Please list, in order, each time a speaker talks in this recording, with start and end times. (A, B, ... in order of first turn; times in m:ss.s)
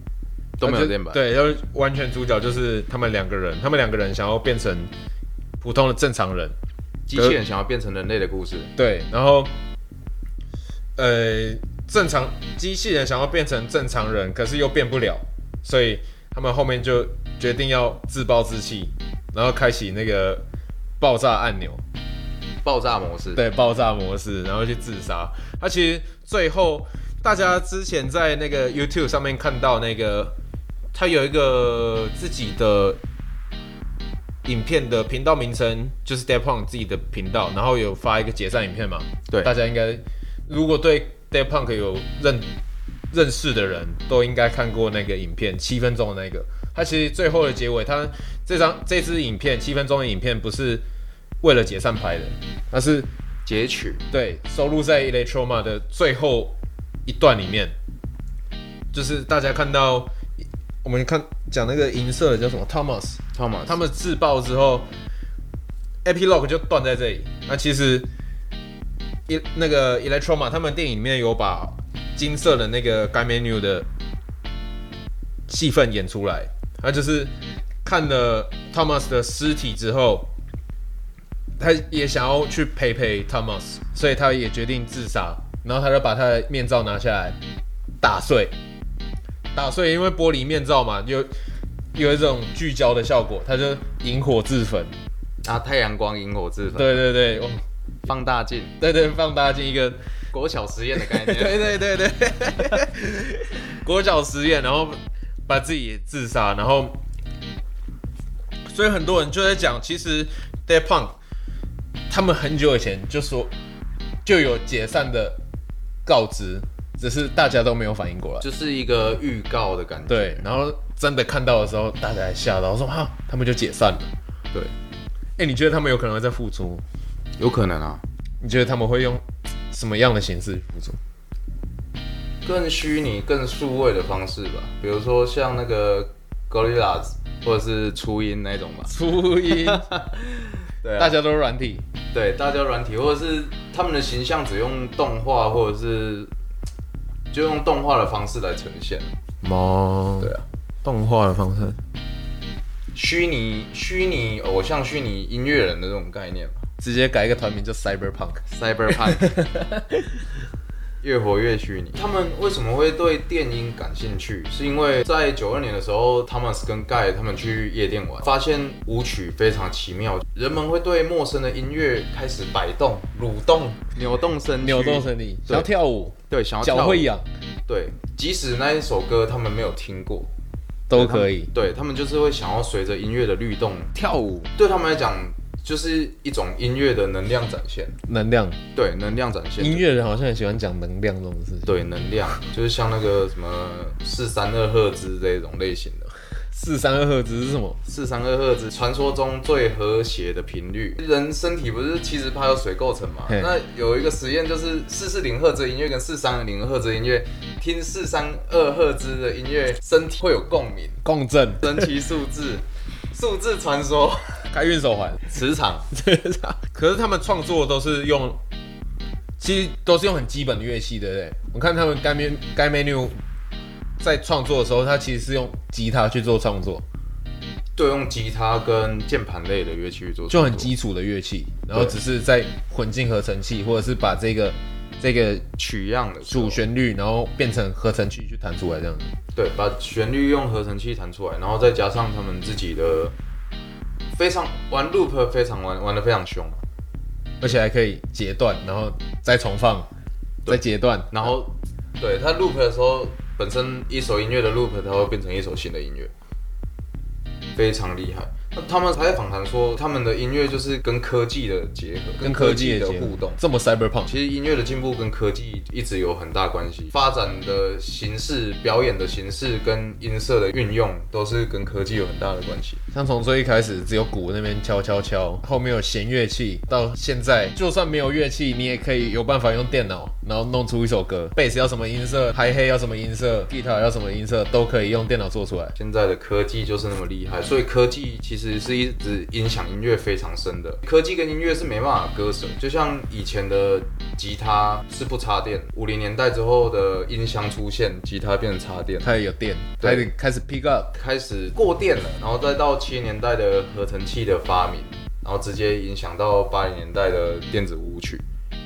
0:00.6-0:01.2 A
0:00.6-0:04.9 B
0:05.6-0:06.6 B
0:07.1-0:08.7 A
0:08.8-0:09.5 B
0:11.0-0:20.4 B
0:21.0-0:21.8 B
0:22.6-0:23.4 A
0:23.4-0:30.4 B
0:30.9-0:33.0 B
0:34.4-0:42.5 B
0:43.1-0:50.8 B
0:51.4-0:53.1 B
0:53.5-0:54.0 A
0:54.1-0:57.8 B
0:58.9-1:00.1 B
1:00.8-1:04.9 B
1:03.4-1:03.8 A
1:06.0-1:08.1 B
1:09.3-1:13.9 B
1:15.5-1:17.3 B
1:17.8-1:20.3 B
1:21.6-1:27.4 B
1:28.0-1:28.5 B
1:29.6-1:31.3 B
1:32.0-1:35.0 B
1:35.4-1:37.0 A
1:36.7-1:37.6 B
1:38.1-1:38.8 A
1:38.8-1:40.0 B
1:40.3-1:41.6 A
1:41.0-1:47.0 B
1:48.7-1:51.2 B
1:52.1-1:53.5 B
1:54.2-1:55.4 B
1:56.1-1:58.4 B
1:58.4-2:00.5 A
2:00.1-2:04.1 B
2:05.4-2:06.8 B
2:07.4-2:08.0 A
2:08.4-2:11.0 B
2:12.4-2:18.9 A
2:18.9-2:19.9 B
2:19.5-2:21.2 A
2:21.0-2:21.9 B
2:22.1-2:26.3 A
2:27.3-2:29.1 A
2:29.4-2:30.3 B
2:30.8-2:31.8 B
2:33.0-2:36.6 A
2:36.8-2:38.4 B
2:38.5-2:39.4 A
2:39.1-2:40.1 B
2:41.0-2:55.7 A
2:54.6-2:57.3 B
2:56.3-2:57.1 A
2:57.7-3:00.3 A
3:00.9-3:01.5 B
3:00.9-3:08.0 A
3:08.1-3:08.6 B
3:08.7-3:09.8 A
3:09.6-3:11.8 B
3:11.7-3:16.1 A
3:16.5-3:17.8 B
3:17.8-3:31.0 A
3:31.0-3:31.9 B
3:31.6-3:34.4 A
3:34.5-3:35.3 B
3:35.3-3:35.9 A
3:35.9-3:38.4 B
3:39.4-3:43.2 B
3:44.0-3:46.8 B
3:47.8-3:50.7 A
3:50.3-3:55.5 B
3:55.6-3:56.6 A
3:56.3-3:59.1 B
3:59.4-4:03.1 A
4:04.1-4:06.6 A
4:07.4-4:09.9 B
4:10.4-4:16.1 A
4:10.5-4:11.4 B
4:17.6-4:23.4 A
4:22.2-4:24.1 B
4:24.1-4:32.8 A
4:32.9-4:45.8 B
4:45.8-4:59.1 A
4:59.0-5:00.9 B
5:00.9-5:08.2 A